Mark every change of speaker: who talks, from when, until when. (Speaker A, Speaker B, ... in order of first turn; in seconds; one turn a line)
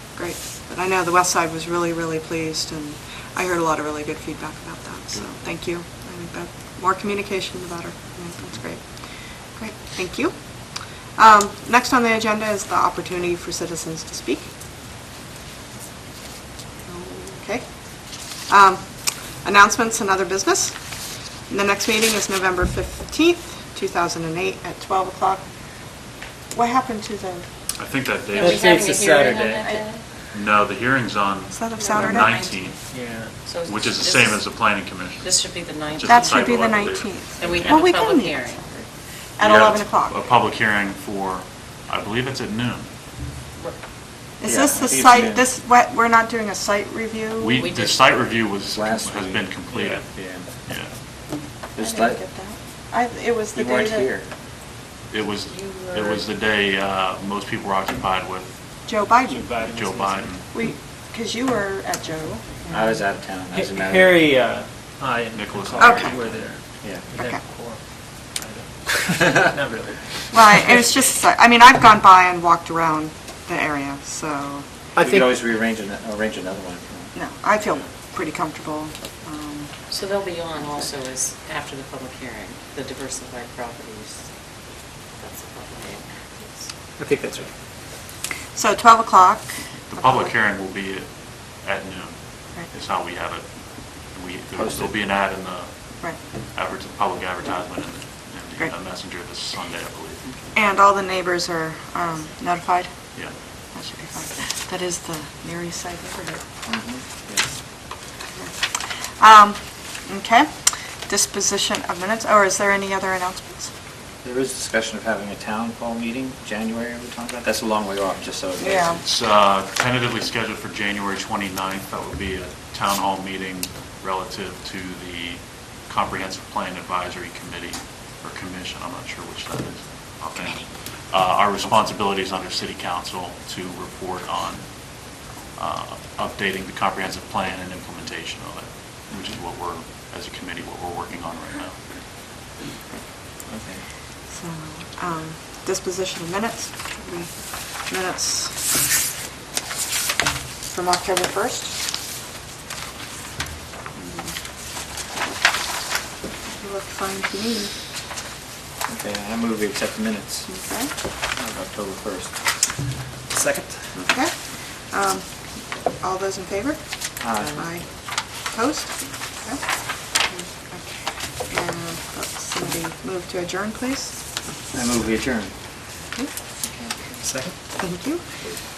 Speaker A: 0.1-8.9
Speaker B: 5.1-5.5
Speaker A: 9.5-10.4
Speaker A: 11.2-14.5
Speaker A: 16.9-17.7
Speaker A: 18.4-18.9
Speaker A: 19.4-20.8
Speaker A: 21.5-25.5
Speaker A: 26.5-27.5
Speaker B: 27.8-28.6
Speaker C: 28.3-30.0
Speaker D: 28.4-29.8
Speaker B: 30.3-32.8
Speaker A: 31.5-32.3
Speaker C: 31.7-32.8
Speaker D: 32.9-33.5
Speaker C: 33.4-34.4
Speaker B: 33.6-35.3
Speaker C: 35.2-38.7
Speaker B: 35.9-37.8
Speaker A: 36.0-38.9
Speaker A: 39.4-40.2
Speaker B: 39.4-42.9
Speaker A: 44.4-47.7
Speaker E: 44.5-45.5
Speaker B: 47.4-50.0
Speaker C: 47.6-48.0
Speaker E: 48.7-50.5
Speaker D: 49.7-50.0
Speaker B: 50.7-50.9
Speaker E: 51.8-52.2
Speaker A: 51.8-54.1
Speaker E: 53.5-54.3
Speaker B: 55.1-58.5
Speaker C: 55.5-56.2
Speaker A: 58.9-59.5
Speaker D: 59.3-60.4
Speaker B: 59.6-60.5
Speaker A: 60.5-62.5
Speaker E: 62.7-64.2
Speaker D: 63.5-70.8
Speaker B: 65.3-66.5
Speaker A: 65.8-66.2
Speaker E: 66.8-67.1
Speaker A: 67.2-67.4
Speaker A: 70.3-74.7
Speaker D: 75.0-75.3
Speaker E: 75.0-77.1
Speaker A: 77.1-79.7
Speaker C: 79.9-84.3
Speaker C: 85.2-86.7
Speaker D: 87.0-87.3
Speaker A: 88.5-90.3
Speaker B: 89.9-93.4
Speaker B: 94.1-100.3
Speaker E: 94.6-94.9
Speaker A: 100.5-102.9
Speaker A: 103.8-106.4
Speaker E: 106.7-107.5
Speaker A: 109.2-110.5
Speaker A: 111.1-113.7
Speaker E: 114.2-119.0
Speaker A: 118.6-119.0
Speaker B: 119.0-134.8
Speaker B: 135.5-141.8
Speaker E: 143.5-143.8
Speaker A: 144.3-148.6
Speaker A: 150.7-151.7
Speaker A: 154.0-154.3
Speaker A: 156.6-157.7
Speaker E: 158.9-160.5
Speaker A: 160.5-160.9
Speaker E: 161.4-162.4
Speaker E: 163.3-163.7
Speaker A: 163.9-165.3
Speaker A: 166.0-166.8
Speaker E: 167.2-167.8
Speaker A: 168.5-168.9
Speaker A: 171.5-174.2
Speaker E: 174.7-175.5
Speaker A: 177.8-178.2